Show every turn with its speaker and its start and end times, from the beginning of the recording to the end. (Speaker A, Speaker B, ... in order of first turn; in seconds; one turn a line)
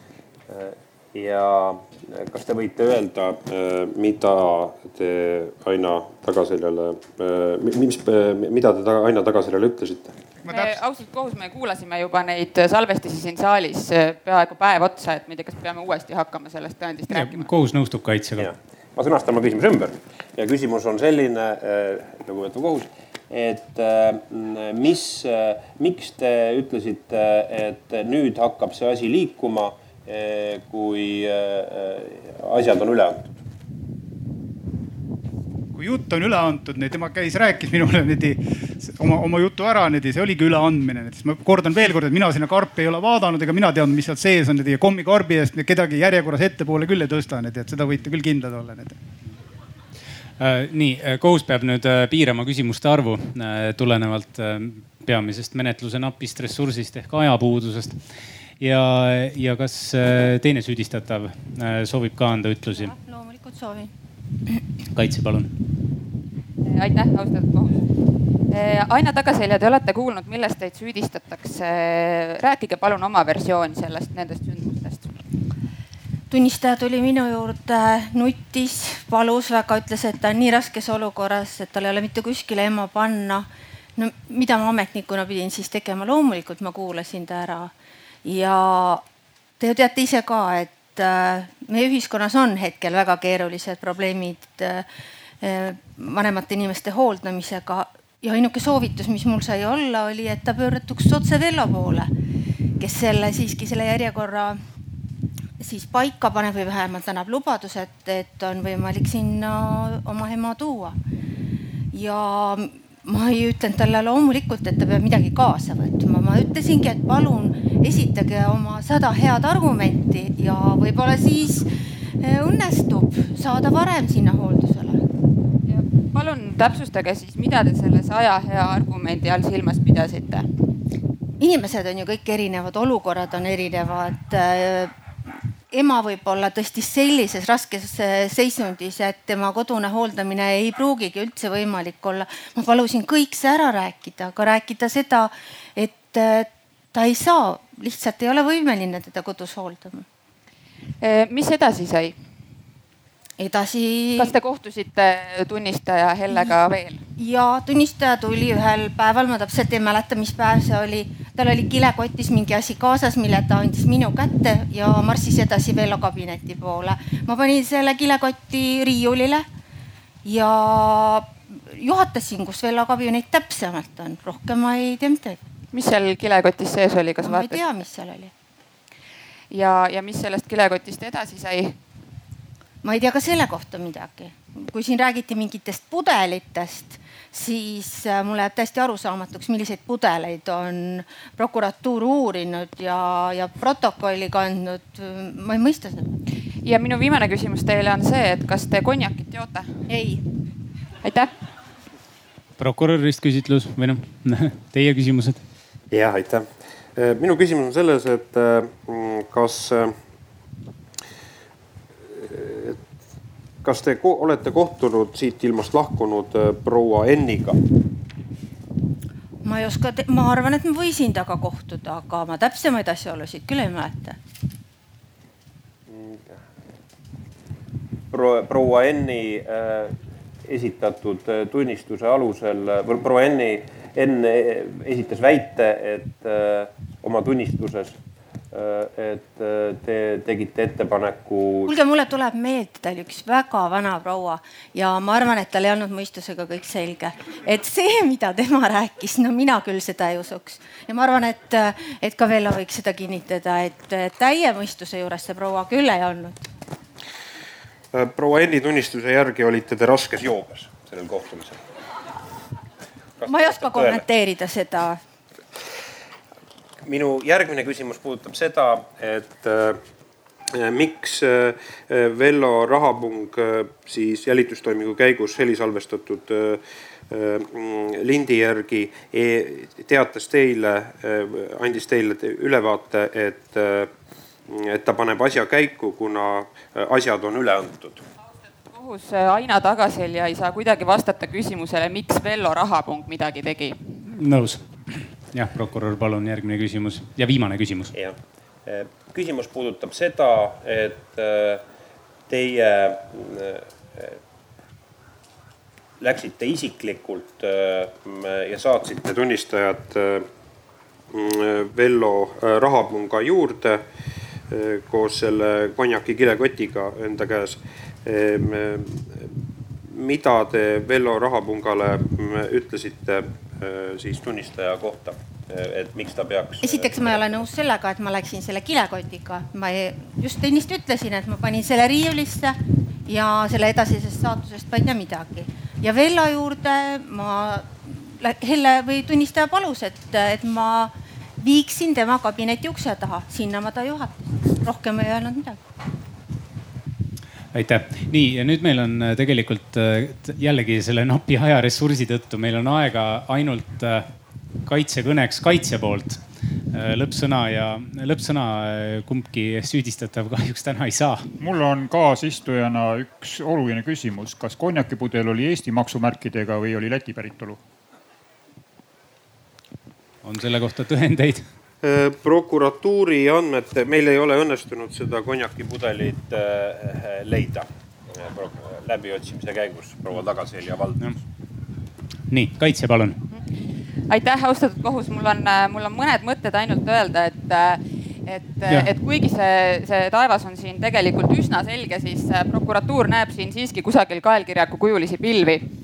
Speaker A: 0.5-10.2
Speaker B: 10.5-10.8
Speaker C: 10.5-17.5
Speaker D: 17.1-18.5
Speaker A: 18.4-33.3
Speaker B: 35.7-49.0
Speaker D: 50.4-58.0
Speaker D: 58.6-62.9
Speaker E: 62.7-63.9
Speaker D: 64.9-65.5
Speaker C: 66.6-67.8
Speaker C: 68.5-75.1
Speaker E: 76.3-87.7
Speaker E: 88.2-89.0
Speaker E: 89.6-94.9
Speaker E: 95.4-102.1
Speaker E: 102.8-104.6
Speaker E: 105.6-111.0
Speaker E: 111.9-125.0
Speaker C: 125.7-130.5
Speaker E: 131.4-134.9
Speaker E: 135.7-150.1
Speaker C: 151.0-152.2
Speaker E: 153.4-154.3
Speaker C: 154.2-157.0
Speaker E: 157.2-169.4
Speaker E: 170.2-175.4
Speaker C: 175.7-177.6
Speaker E: 177.2-178.3
Speaker C: 179.5-181.8
Speaker E: 182.8-196.1
Speaker C: 196.6-199.7
Speaker E: 199.9-200.2
Speaker C: 201.0-201.3
Speaker D: 202.6-205.4
Speaker A: 205.9-209.9
Speaker A: 212.1-212.8
Speaker A: 213.6-217.6
Speaker E: 219.4-224.2
Speaker A: 225.9-226.4
Speaker A: 228.1-238.0
Speaker A: 238.5-241.7
Speaker E: 241.7-256.4
Speaker A: 257.9-261.7
Speaker A: 263.2-264.0
Speaker E: 263.2-265.0
Speaker A: 266.8-269.8
Speaker A: 270.5-283.9
Speaker A: 284.5-288.0
Speaker C: 288.7-293.8
Speaker D: 294.1-297.9
Speaker A: 297.9-301.6
Speaker A: 302.3-304.2
Speaker A: 306.0-310.3
Speaker A: 311.1-313.8
Speaker A: 314.5-319.3
Speaker A: 319.8-327.3
Speaker E: 326.6-345.6
Speaker D: 347.5-354.1
Speaker D: 354.6-356.2
Speaker D: 356.7-361.3
Speaker F: 361.4-367.6
Speaker D: 370.2-371.4
Speaker A: 371.8-381.1
Speaker D: 382.3-383.2
Speaker C: 384.1-395.7